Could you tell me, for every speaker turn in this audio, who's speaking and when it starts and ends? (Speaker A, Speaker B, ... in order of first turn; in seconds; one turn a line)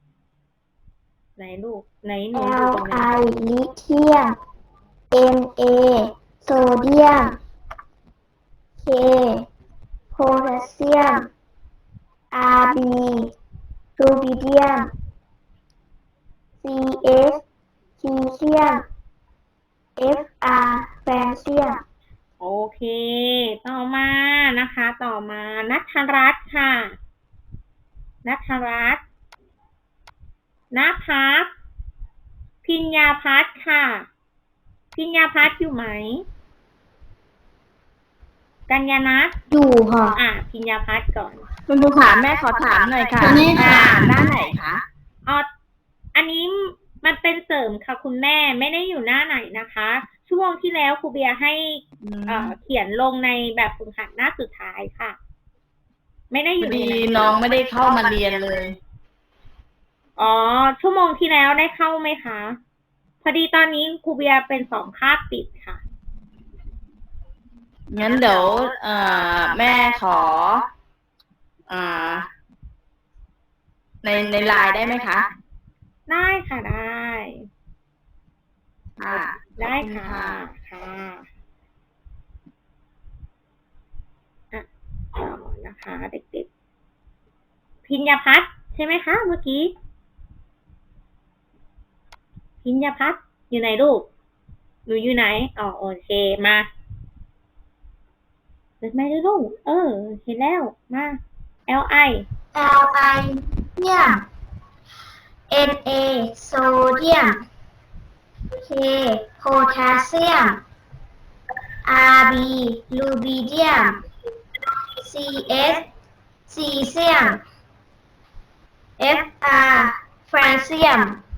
Speaker A: 1.4-3.1
Speaker B: 2.3-4.3
Speaker B: 5.1-7.4
Speaker B: 8.8-9.4
Speaker B: 10.1-11.3
Speaker B: 12.3-13.3
Speaker B: 14.0-14.9
Speaker B: 16.6-17.4
Speaker B: 18.0-18.8
Speaker B: 20.0-21.8
Speaker A: 22.4-26.9
Speaker A: 28.2-29.0
Speaker A: 30.7-31.5
Speaker A: 32.6-34.1
Speaker A: 34.9-36.2
Speaker A: 38.7-39.3
Speaker B: 39.5-40.2
Speaker A: 40.1-41.4
Speaker C: 41.7-44.8
Speaker B: 43.2-43.9
Speaker A: 46.1-55.2
Speaker C: 52.0-52.5
Speaker A: 56.3-57.4
Speaker C: 56.6-58.8
Speaker A: 60.2-62.6
Speaker A: 63.2-65.8
Speaker C: 67.9-70.6
Speaker C: 71.7-72.3
Speaker C: 74.0-75.3
Speaker A: 76.1-77.4
Speaker C: 79.0-80.4
Speaker A: 79.1-81.2
Speaker A: 84.5-86.5
Speaker A: 87.8-89.7
Speaker A: 92.6-94.1
Speaker A: 94.9-96.7
Speaker A: 98.8-102.3
Speaker B: 102.5-104.2
Speaker B: 105.5-107.4
Speaker B: 108.6-110.6
Speaker B: 111.8-114.0
Speaker B: 115.0-115.9
Speaker B: 116.5-117.4
Speaker B: 119.0-121.2